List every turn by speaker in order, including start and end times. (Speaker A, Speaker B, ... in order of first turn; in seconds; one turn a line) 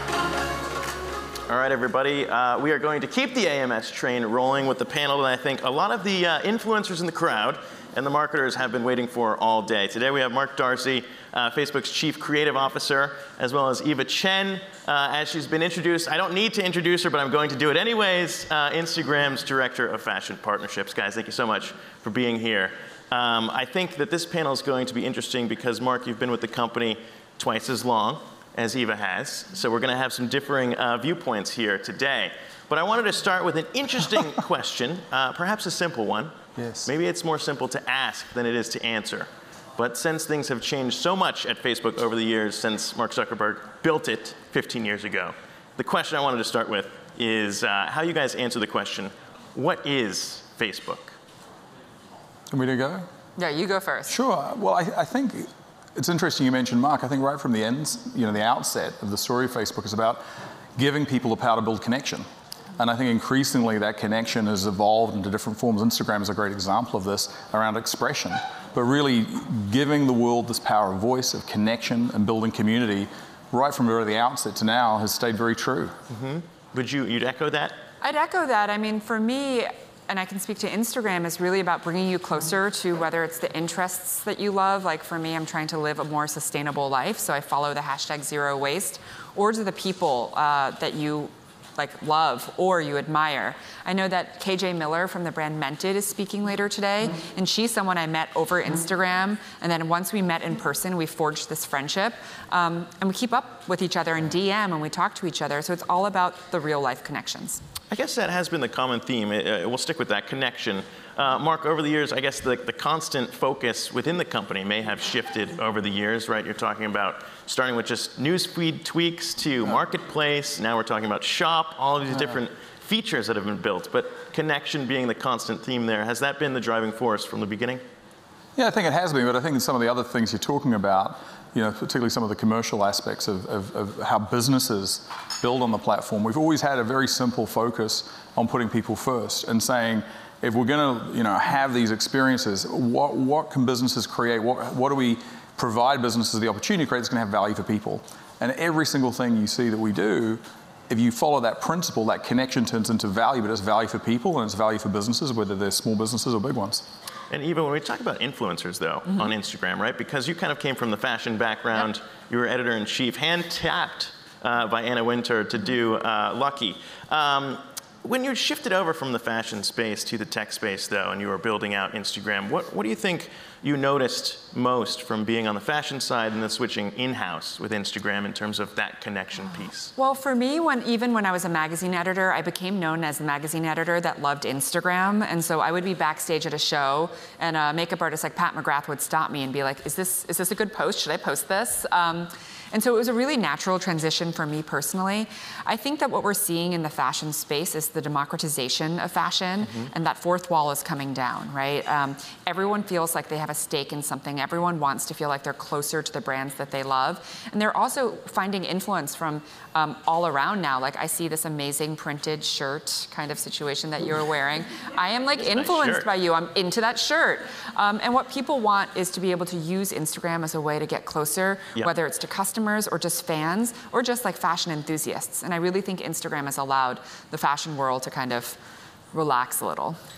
Speaker A: 1.5-36.3
Speaker B: 36.5-36.9
Speaker A: 36.9-51.1
Speaker B: 52.5-53.0
Speaker C: 53.4-54.1
Speaker B: 54.1-60.2
Speaker B: 60.8-62.2
Speaker B: 62.8-75.9
Speaker A: 76.1-77.8
Speaker C: 78.0-107.6
Speaker A: 107.9-127.8
Speaker B: 128.6-156.8
Speaker A: 157.3-179.9
Speaker C: 179.9-228.6
Speaker A: 215.4-216.1
Speaker C: 229.1-230.0